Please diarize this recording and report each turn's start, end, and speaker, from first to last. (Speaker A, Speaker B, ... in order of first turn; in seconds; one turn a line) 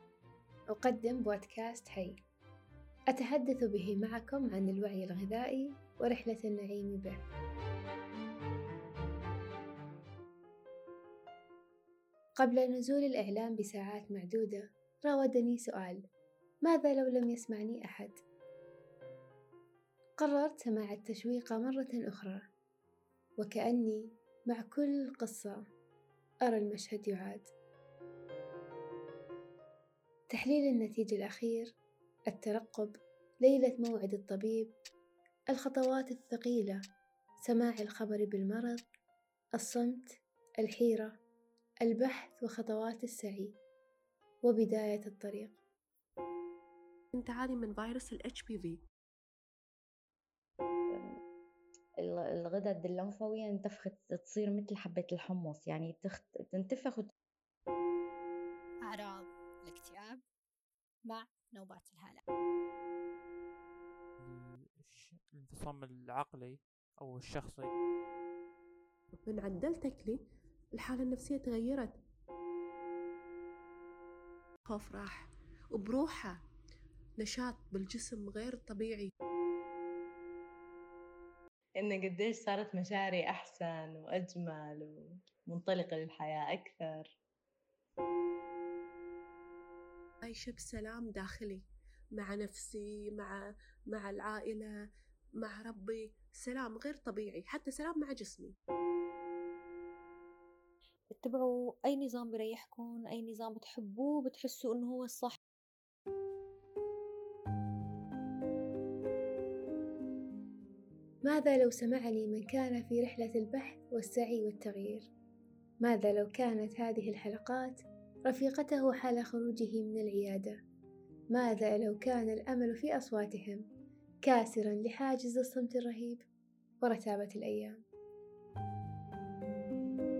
Speaker A: 0.7-2.2
Speaker A: 3.1-7.2
Speaker A: 12.4-16.0
Speaker A: 16.6-18.2
Speaker A: 20.2-22.5
Speaker A: 23.4-25.6
Speaker A: 26.4-27.5
Speaker A: 30.3-31.7
Speaker A: 32.3-34.7
Speaker A: 35.5-36.8
Speaker A: 37.5-38.8
Speaker A: 39.6-40.0
Speaker A: 40.6-41.2
Speaker A: 41.8-43.6
Speaker A: 44.5-45.6
Speaker B: 47.1-48.8
Speaker C: 50.9-51.2
Speaker C: 52.0-57.1
Speaker D: 58.8-60.2
Speaker D: 61.0-62.2
Speaker E: 64.2-67.7
Speaker B: 69.3-70.2
Speaker B: 70.8-71.9
Speaker B: 74.7-75.2
Speaker B: 75.7-76.4
Speaker B: 77.2-79.1
Speaker F: 81.8-87.2
Speaker B: 90.2-91.7
Speaker B: 92.2-93.4
Speaker B: 93.9-94.7
Speaker B: 95.4-98.5
Speaker G: 101.2-105.4
Speaker A: 111.2-115.1
Speaker A: 115.8-120.6
Speaker A: 121.3-123.6
Speaker A: 124.2-126.2
Speaker A: 126.8-127.8